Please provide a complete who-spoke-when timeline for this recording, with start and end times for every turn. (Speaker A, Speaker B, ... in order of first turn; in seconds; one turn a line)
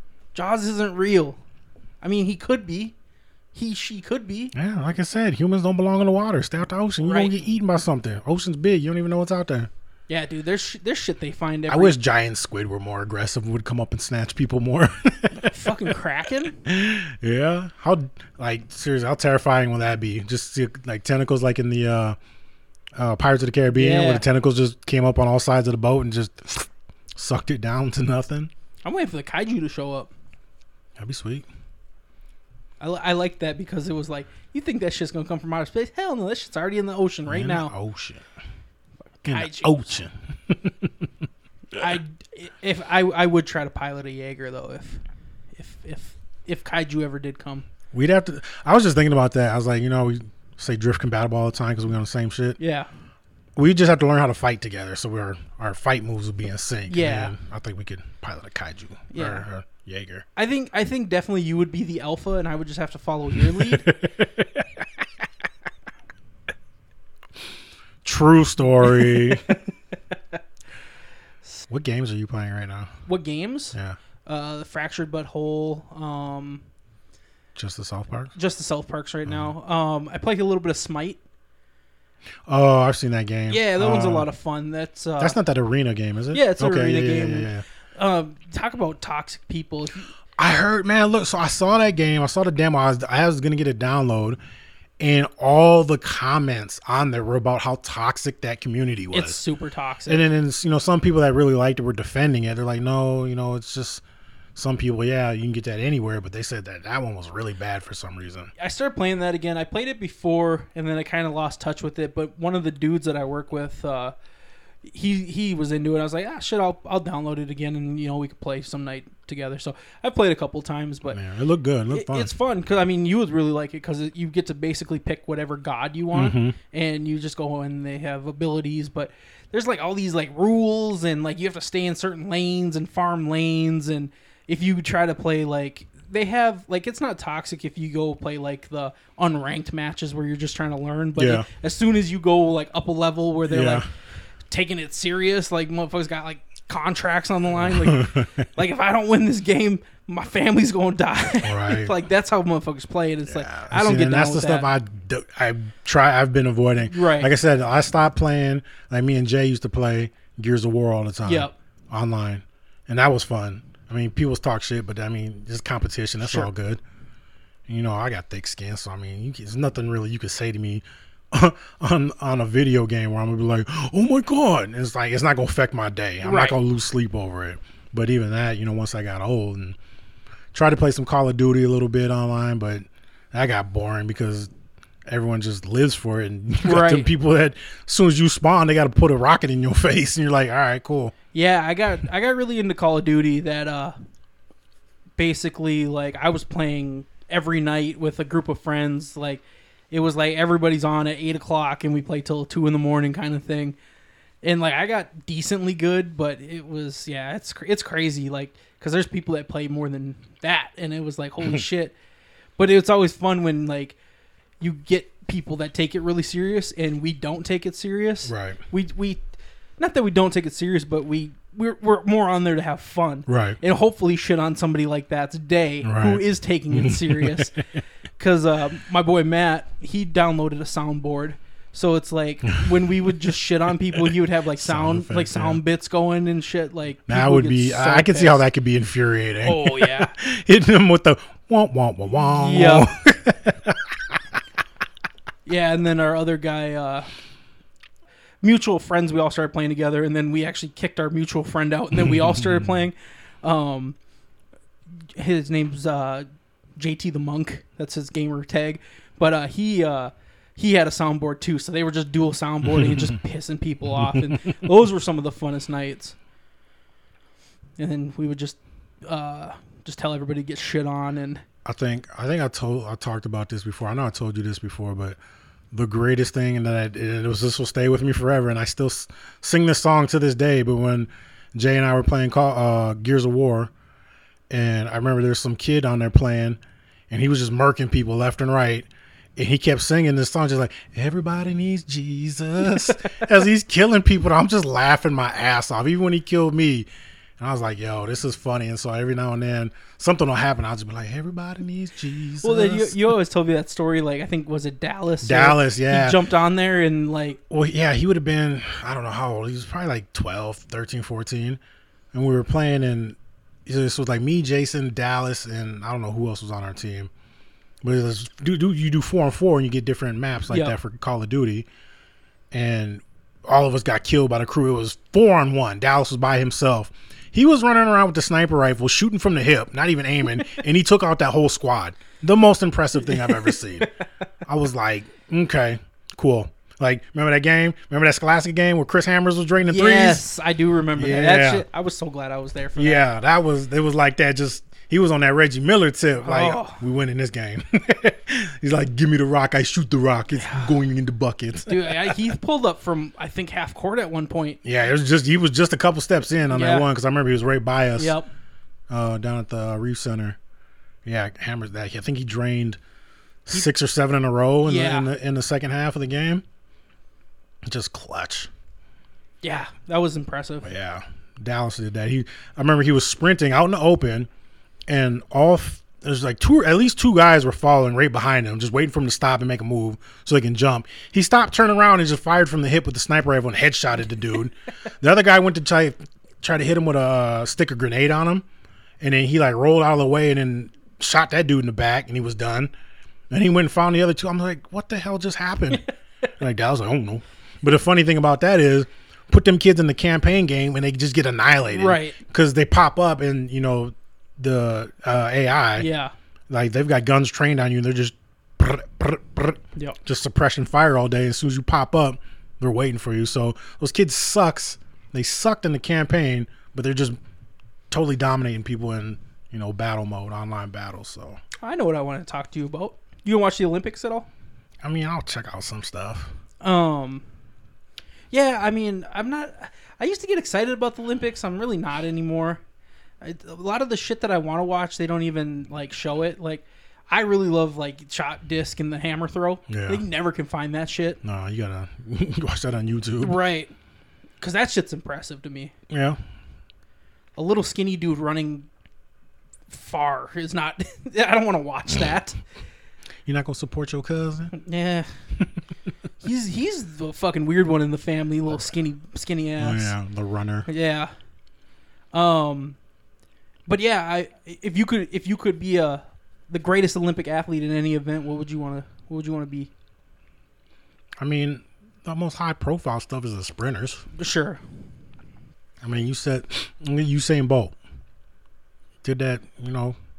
Speaker A: 0.3-1.4
Speaker A: 2.0-2.9
Speaker A: 3.5-4.5
Speaker B: 4.5-9.7
Speaker A: 7.0-7.4
Speaker A: 10.1-12.0
Speaker B: 11.7-15.9
Speaker A: 15.4-16.6
Speaker B: 16.6-22.2
Speaker B: 23.0-28.5
Speaker A: 23.7-24.2
Speaker A: 28.9-30.1
Speaker B: 31.0-31.5
Speaker A: 32.8-37.7
Speaker B: 37.3-38.2
Speaker A: 39.2-40.0
Speaker B: 39.2-41.1
Speaker A: 41.7-45.0
Speaker A: 45.5-47.7
Speaker B: 47.9-52.6
Speaker A: 52.6-52.9
Speaker B: 53.6-60.2
Speaker A: 56.9-57.3
Speaker A: 59.1-59.5
Speaker A: 60.4-63.9
Speaker B: 63.4-64.9
Speaker B: 68.0-69.5
Speaker A: 69.0-69.6
Speaker B: 71.7-72.9
Speaker A: 73.1-76.6
Speaker B: 77.5-78.3
Speaker A: 78.3-81.2
Speaker B: 82.5-84.3
Speaker A: 83.5-85.4
Speaker B: 85.2-87.6
Speaker A: 86.3-90.1
Speaker B: 90.4-94.4
Speaker B: 95.0-99.4
Speaker A: 99.1-100.2
Speaker B: 100.1-104.0
Speaker B: 104.6-108.5
Speaker A: 108.6-114.2
Speaker A: 114.8-121.2
Speaker B: 121.1-122.3
Speaker A: 121.9-143.9
Speaker B: 126.1-126.6
Speaker B: 141.2-141.5
Speaker B: 143.5-143.9
Speaker A: 144.5-154.7
Speaker B: 147.6-148.3
Speaker B: 151.4-151.9
Speaker B: 153.3-166.8
Speaker A: 156.9-157.3
Speaker A: 161.2-161.5
Speaker A: 166.2-166.5
Speaker B: 167.7-179.8
Speaker A: 176.2-176.6
Speaker B: 180.5-184.5
Speaker B: 185.1-191.1
Speaker A: 186.6-187.1
Speaker A: 191.3-194.0
Speaker A: 195.2-203.8
Speaker A: 204.4-211.9
Speaker A: 212.6-214.0
Speaker A: 214.6-219.2
Speaker B: 218.2-218.6
Speaker A: 219.8-227.6
Speaker B: 223.3-223.6
Speaker B: 225.8-227.8
Speaker A: 228.2-238.5
Speaker B: 234.0-235.6
Speaker B: 237.1-244.2
Speaker A: 239.4-240.1
Speaker A: 242.2-242.9
Speaker A: 245.5-247.1
Speaker A: 248.4-254.0
Speaker B: 251.9-252.8
Speaker A: 255.2-256.3
Speaker A: 256.8-266.2
Speaker B: 262.7-263.2
Speaker B: 264.0-264.5
Speaker A: 267.8-271.4
Speaker B: 271.6-275.2
Speaker B: 275.7-283.7
Speaker B: 284.5-296.9
Speaker A: 292.8-293.2
Speaker B: 297.4-303.1
Speaker A: 302.4-307.4
Speaker B: 305.2-306.2
Speaker B: 307.5-311.6
Speaker B: 312.1-317.1
Speaker B: 317.8-321.7
Speaker A: 320.5-320.8
Speaker B: 322.5-333.9
Speaker A: 333.1-333.9
Speaker B: 334.5-340.3
Speaker A: 339.7-343.0
Speaker B: 340.9-341.7
Speaker B: 342.8-352.3
Speaker A: 346.2-346.8
Speaker A: 350.3-350.7
Speaker A: 351.7-354.6
Speaker B: 354.6-358.2
Speaker A: 356.5-356.9
Speaker A: 358.0-358.3
Speaker B: 358.9-360.4
Speaker B: 361.1-362.8
Speaker B: 363.5-366.4
Speaker A: 364.6-365.1
Speaker B: 367.6-368.5
Speaker A: 369.4-370.7
Speaker B: 370.6-374.3
Speaker B: 374.9-388.4
Speaker B: 389.0-392.7
Speaker B: 393.3-395.8
Speaker B: 396.4-405.9
Speaker A: 401.7-402.2
Speaker A: 405.8-406.1
Speaker B: 406.5-417.2
Speaker B: 417.9-421.4
Speaker A: 421.6-424.3
Speaker B: 424.8-426.3
Speaker A: 426.6-427.2
Speaker A: 428.3-432.6
Speaker A: 433.2-441.2
Speaker B: 439.7-440.0
Speaker B: 441.2-443.4
Speaker A: 443.2-443.7
Speaker A: 444.4-445.7
Speaker B: 445.9-446.2
Speaker A: 447.4-448.7
Speaker A: 449.7-452.4
Speaker B: 453.3-454.5
Speaker A: 454.5-455.1
Speaker A: 456.2-459.9
Speaker B: 459.6-460.7
Speaker A: 460.7-461.1
Speaker A: 462.1-462.8
Speaker A: 463.7-469.7
Speaker B: 471.2-474.1
Speaker A: 474.1-474.6
Speaker B: 475.8-477.8
Speaker B: 479.0-480.0